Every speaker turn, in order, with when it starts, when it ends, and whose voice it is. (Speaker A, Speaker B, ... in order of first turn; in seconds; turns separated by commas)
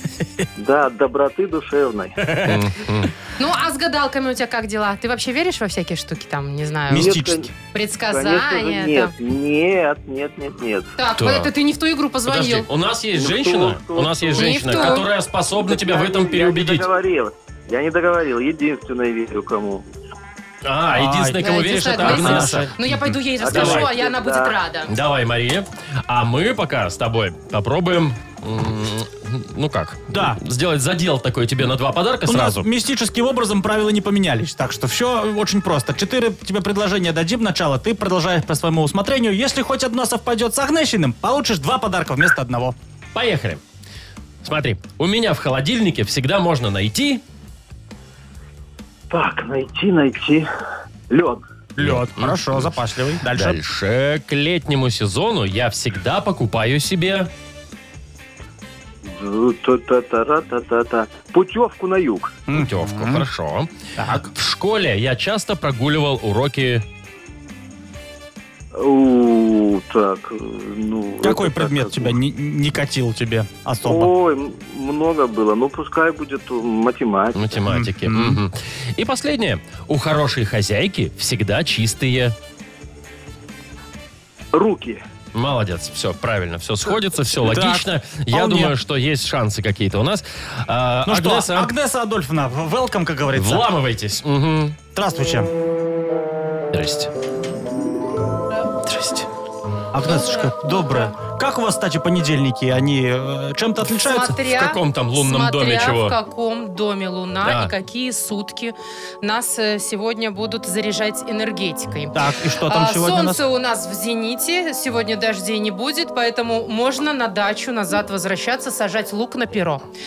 Speaker A: 0.6-2.2, Speaker B: 2.2-2.6, Speaker C: 2.4-3.1, Speaker D: 3.4-7.1, Speaker B: 6.9-7.5, Speaker A: 6.9-7.5, Speaker D: 7.7-9.1, Speaker A: 8.1-10.9, Speaker D: 11.0-12.7, Speaker C: 11.2-11.5, Speaker C: 12.3-16.9, Speaker A: 13.2-19.8, Speaker D: 14.3-15.1, Speaker C: 20.6-22.7, Speaker B: 20.9-23.2, Speaker D: 21.4-24.9, Speaker A: 23.4-24.6, Speaker C: 23.5-23.9, Speaker C: 24.9-32.6, Speaker B: 30.1-30.4, Speaker B: 32.3-42.8, Speaker C: 43.1-43.6, Speaker C: 44.4-47.2, Speaker A: 49.1-50.5, Speaker A: 51.1-51.4, Speaker B: 51.8-53.6, Speaker C: 51.8-57.3, Speaker A: 59.0-62.4, Speaker B: 62.5-63.2, Speaker C: 62.5-63.7, Speaker B: 64.0-64.3, Speaker C: 64.3-66.8, Speaker A: 68.7-72.2, Speaker B: 71.2-74.1, Speaker A: 73.8-77.4, Speaker C: 77.3-82.3, Speaker B: 77.7-78.4, Speaker A: 84.5-85.0, Speaker C: 85.3-91.7, Speaker B: 87.4-88.7, Speaker B: 91.1-93.7, Speaker C: 93.3-94.8, Speaker B: 94.9-95.5, Speaker C: 96.7-97.1, Speaker C: 98.8-99.3, Speaker B: 99.9-104.4, Speaker D: 100.0-101.1, Speaker D: 104.0-119.8, Speaker C: 104.5-106.2, Speaker C: 107.4-107.7, Speaker B: 112.1-113.4